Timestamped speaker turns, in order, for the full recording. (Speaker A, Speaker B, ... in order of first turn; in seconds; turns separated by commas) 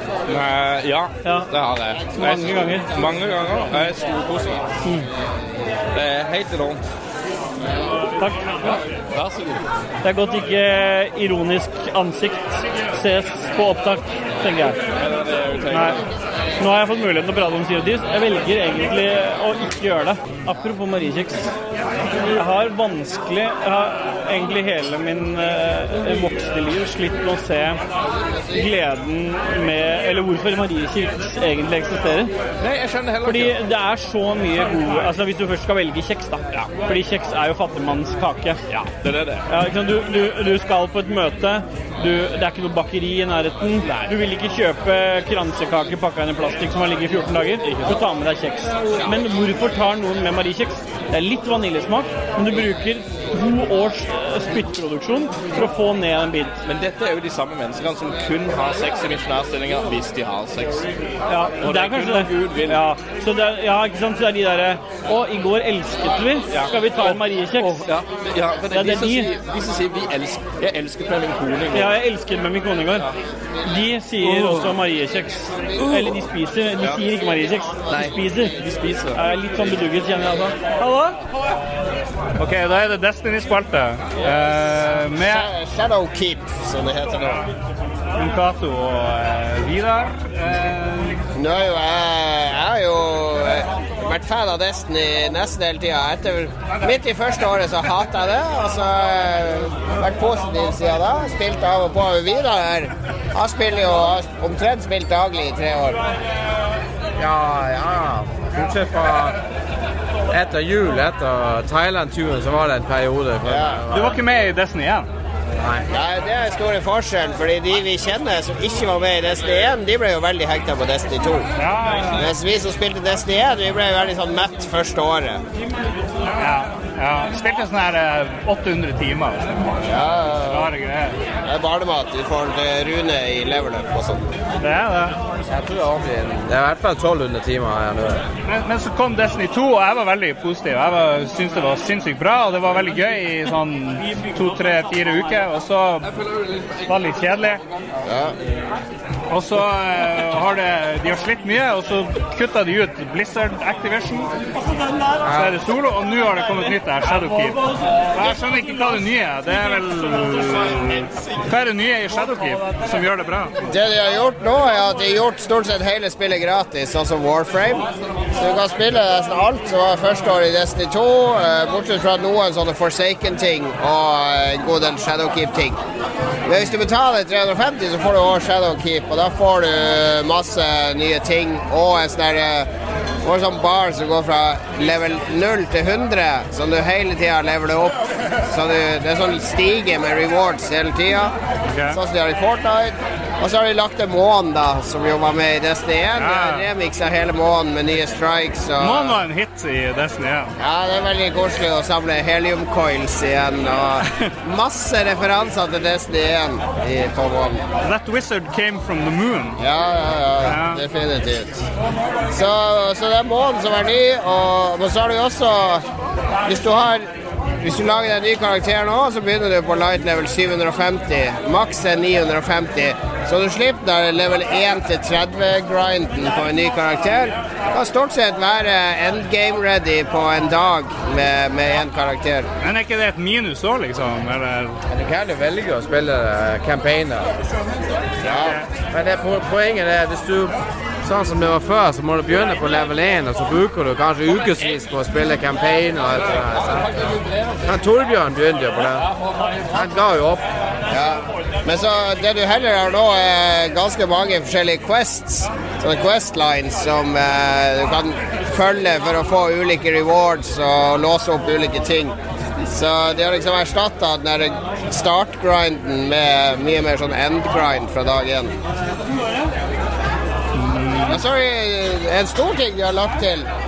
Speaker A: 0.3-4.6, Speaker B: 1.2-1.5, Speaker B: 2.2-2.9, Speaker A: 5.9-6.8, Speaker B: 8.2-8.5, Speaker A: 9.1-9.6, Speaker B: 10.0-14.8, Speaker A: 14.9-16.0, Speaker B: 15.7-16.0, Speaker B: 16.6-21.5, Speaker B: 22.2-27.8, Speaker B: 28.5-32.3, Speaker A: 32.6-33.6, Speaker B: 33.2-38.6, Speaker A: 38.7-39.4, Speaker B: 39.5-56.6, Speaker A: 43.8-44.1, Speaker A: 56.6-60.9, Speaker B: 61.3-67.8, Speaker A: 61.6-62.8, Speaker A: 66.5-72.0, Speaker B: 68.7-69.3, Speaker B: 71.7-73.1, Speaker B: 73.6-78.6, Speaker A: 74.2-74.7, Speaker A: 75.8-76.1, Speaker A: 77.9-79.2, Speaker B: 79.1-80.6, Speaker C: 80.8-81.2, Speaker C: 82.4-85.5, Speaker D: 85.1-87.5, Speaker C: 88.1-91.2, Speaker D: 91.3-106.0, Speaker E: 107.2-109.4, Speaker E: 110.3-114.2, Speaker D: 113.5-113.8, Speaker C: 113.9-115.1, Speaker D: 115.9-121.5, Speaker C: 121.6-122.3, Speaker D: 122.1-125.4, Speaker C: 126.3-129.5, Speaker D: 129.9-130.7, Speaker C: 130.5-131.2, Speaker D: 131.4-134.2, Speaker C: 134.6-135.2, Speaker E: 135.5-138.2, Speaker C: 138.4-146.1, Speaker B: 144.1-144.4, Speaker C: 146.9-147.6, Speaker D: 148.1-148.3, Speaker C: 149.3-154.3, Speaker C: 155.2-163.6, Speaker D: 163.7-175.8, Speaker D: 176.4-182.7, Speaker D: 183.2-191.3, Speaker C: 191.6-192.0, Speaker D: 191.9-199.2, Speaker C: 196.2-196.7, Speaker C: 198.8-200.5, Speaker D: 200.6-207.6, Speaker C: 207.8-209.6, Speaker D: 209.6-211.7, Speaker C: 210.4-210.8, Speaker D: 212.3-215.8, Speaker D: 216.4-232.5, Speaker C: 232.6-234.8, Speaker E: 234.9-237.3, Speaker D: 238.2-238.6, Speaker C: 238.3-238.7, Speaker E: 238.9-246.9, Speaker E: 247.6-249.1, Speaker E: 249.7-250.4, Speaker D: 250.9-262.1, Speaker D: 262.7-268.5, Speaker C: 270.6-271.2, Speaker D: 271.1-273.5